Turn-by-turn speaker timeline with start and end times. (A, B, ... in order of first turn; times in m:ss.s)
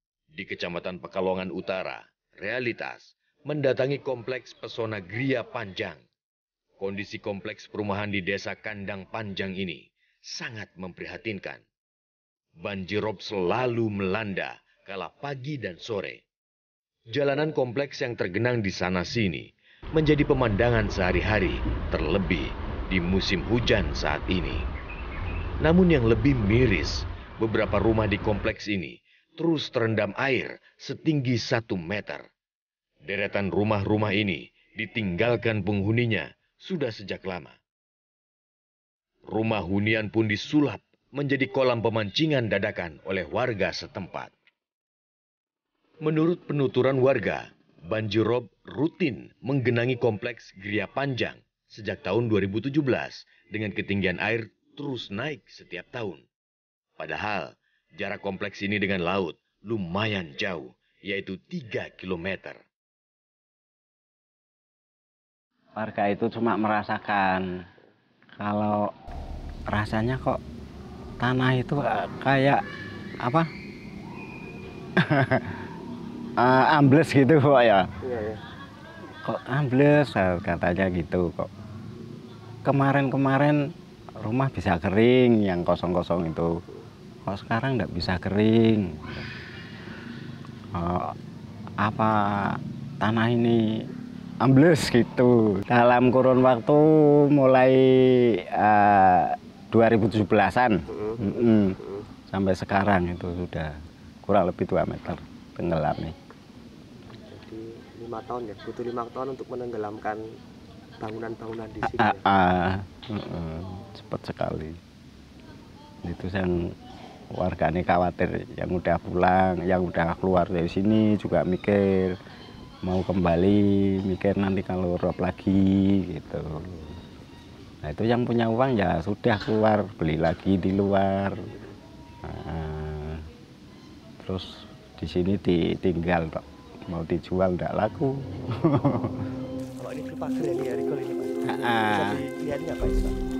0:00.3-0:06.0 A
0:06.8-0:11.6 A
0:12.6-0:16.2 A
0:17.1-0:24.6 A
0:25.6-0:32.2 A
0:33.0-0:37.6 A
0:39.3-0:44.3 A
0:46.0-0:56.2 A
0:57.0-1:02.6 A
1:05.8-1:07.6 B
1:08.4-1:08.9 B
1:09.7-1:10.4 B
1:11.2-1:12.6 B
1:15.0-1:15.6 B
1:16.4-1:17.9 B
1:18.0-1:18.4 C
1:19.2-1:21.5 B
1:22.6-1:23.6 B
1:24.2-1:26.5 B
1:27.2-1:29.2 B
1:30.7-1:31.1 B
1:31.8-1:33.6 B
1:34.4-1:41.8 B
1:40.9-1:42.0 C
1:42.3-1:43.7 B
1:44.2-1:46.1 B
1:47.2-1:50.2 C
1:51.0-1:52.2 C
1:51.8-1:54.8 B
1:56.0-1:56.7 B
1:57.3-2:02.2 B
2:02.8-2:07.0 B
2:07.8-2:11.4 B
2:12.2-2:13.2 B
2:14.2-2:19.2 B
2:19.8-2:23.2 C
2:21.4-2:22.2 B